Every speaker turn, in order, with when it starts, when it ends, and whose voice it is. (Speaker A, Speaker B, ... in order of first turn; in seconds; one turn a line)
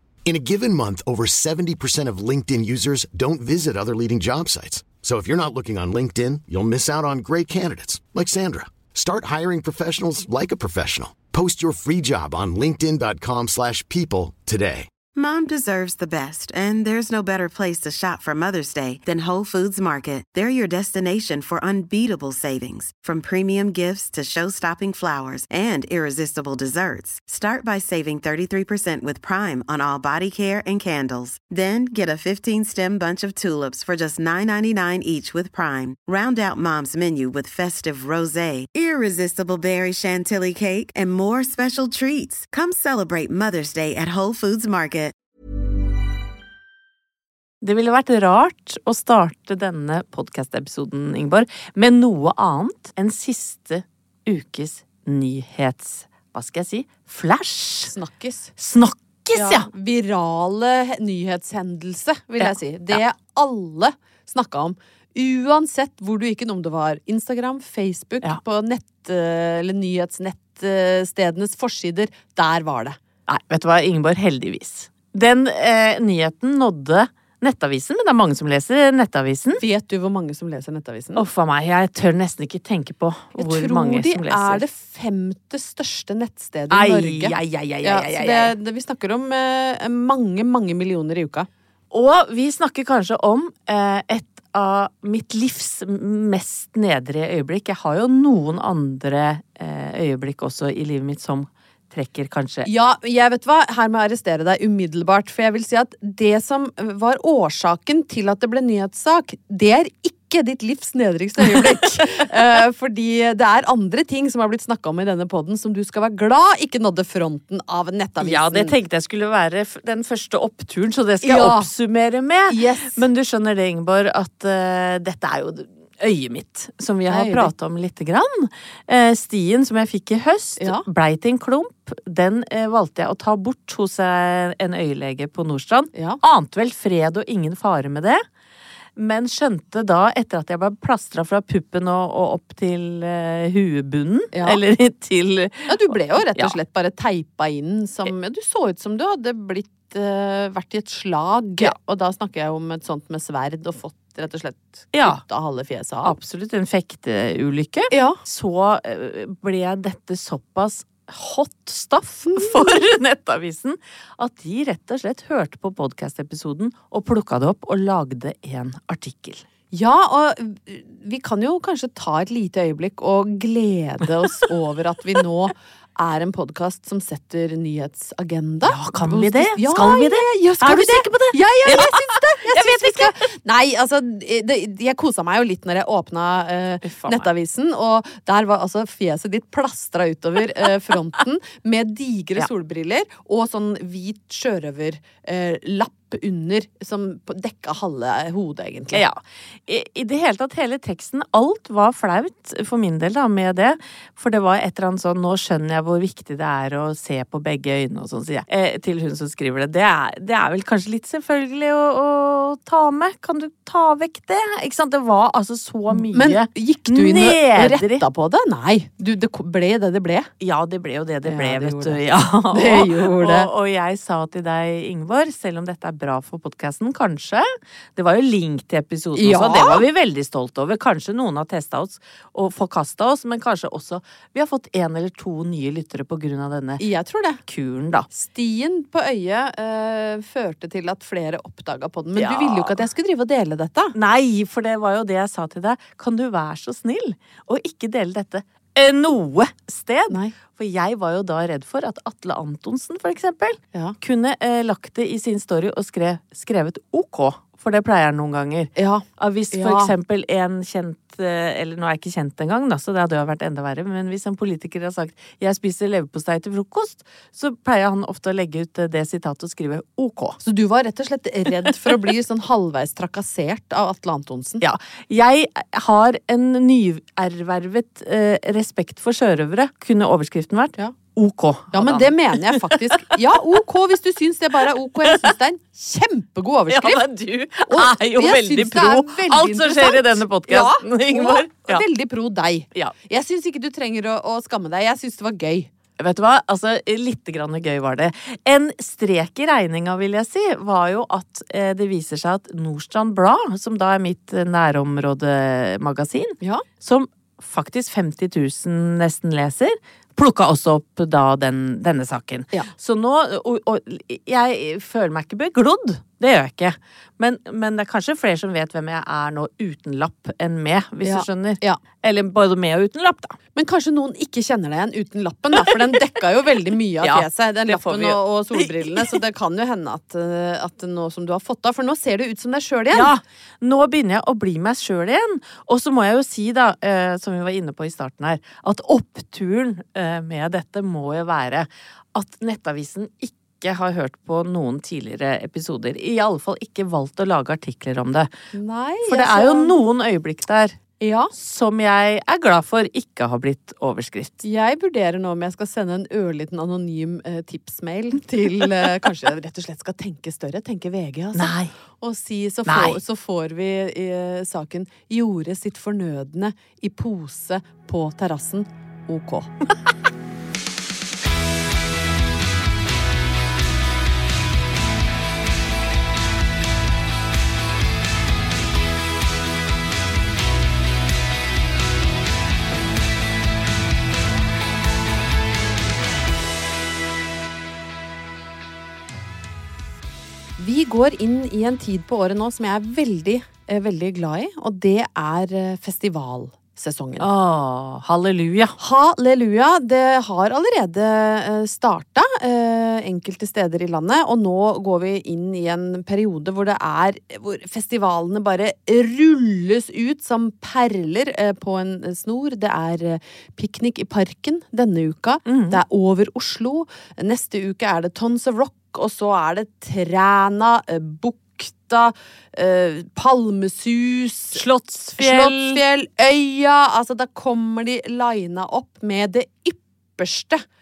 Speaker A: 0.2-14.9
Speaker B: 15.1-45.1
Speaker C: 47.6-57.9
Speaker D: 57.9-58.5
Speaker C: 58.6-59.7
Speaker D: 59.3-73.0
Speaker C: 62.4-63.0
Speaker C: 73.3-79.6
Speaker D: 79.6-81.2
Speaker C: 81.2-84.6
Speaker D: 83.3-91.5
Speaker C: 86.7-88.5
Speaker C: 91.9-102.7
Speaker D: 102.6-118.7
Speaker C: 111.5-112.0
Speaker C: 118.2-138.2
Speaker D: 121.2-121.7
Speaker D: 122.5-123.0
Speaker D: 127.1-127.5
Speaker D: 130.6-130.8
Speaker D: 135.9-136.2
Speaker C: 139.0-146.5
Speaker D: 144.3-144.6
Speaker D: 145.7-156.1
Speaker C: 154.9-155.2
Speaker C: 156.0-169.4
Speaker D: 157.9-158.2
Speaker D: 162.3-162.7
Speaker D: 169.7-199.0
Speaker C: 178.6-183.1
Speaker C: 186.8-187.3
Speaker C: 198.9-218.0
Speaker D: 215.9-220.3
Speaker C: 220.4-236.8
Speaker D: 221.2-223.5
Speaker D: 229.2-229.8
Speaker D: 236.8-237.4
Speaker C: 237.4-238.1
Speaker D: 238.1-243.9
Speaker C: 242.2-242.8
Speaker C: 243.9-270.4
Speaker D: 250.1-250.3
Speaker D: 258.8-259.9
Speaker D: 270.4-274.6
Speaker C: 274.6-283.0
Speaker D: 281.7-287.0
Speaker C: 285.0-285.3
Speaker C: 286.7-291.8
Speaker D: 287.7-295.7
Speaker C: 296.0-323.4
Speaker D: 321.0-321.8
Speaker D: 323.5-333.1
Speaker C: 325.6-325.9
Speaker C: 327.0-329.2
Speaker C: 332.9-348.3
Speaker D: 348.5-349.8
Speaker C: 349.0-350.8
Speaker D: 351.0-351.3
Speaker C: 351.3-354.4
Speaker D: 354.4-369.5
Speaker C: 361.4-361.7
Speaker C: 362.6-363.0
Speaker D: 390.6-397.3
Speaker C: 397.2-398.8
Speaker D: 398.8-424.6
Speaker C: 415.4-415.8
Speaker C: 424.5-425.8
Speaker D: 425.2-430.6